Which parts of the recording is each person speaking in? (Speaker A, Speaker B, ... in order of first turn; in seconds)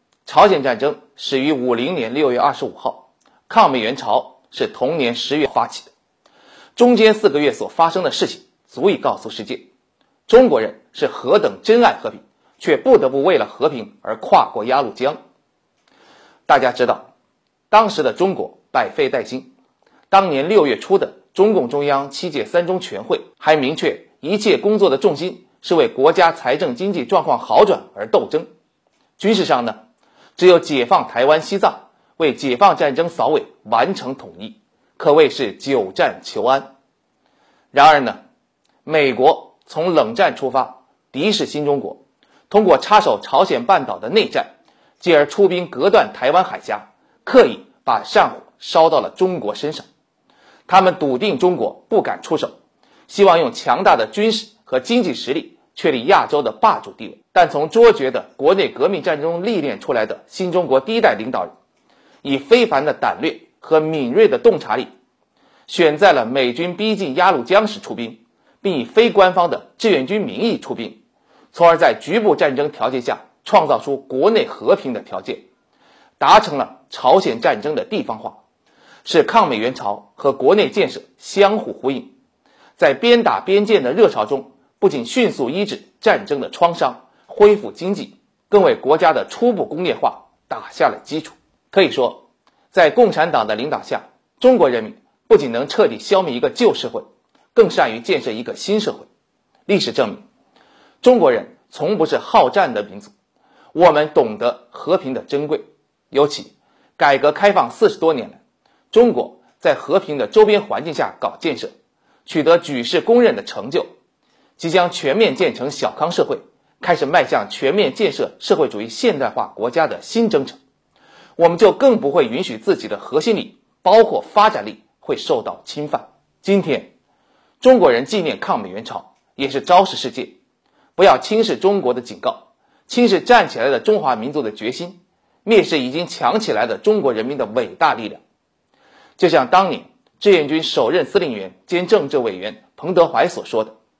Speaker A: 0.3-5.9, 6.8-9.7, 10.3-15.2, 16.5-17.1, 17.7-19.5, 20.1-28.5, 29.2-29.8, 30.4-36.7, 37.7-38.2, 38.9-49.9, 50.7-52.6, 53.1-61.5, 62.2-64.9, 65.7-71.0, 71.5-75.5, 76.2-78.4, 79.0-82.1, 82.8-99.1, 99.7-100.2, 101.0-103.1, 103.7-108.4, 108.9-111.7, 112.3-113.9, 114.6-120.6, 121.4-126.9, 127.6-130.4, 131.0-138.2, 139.2-143.8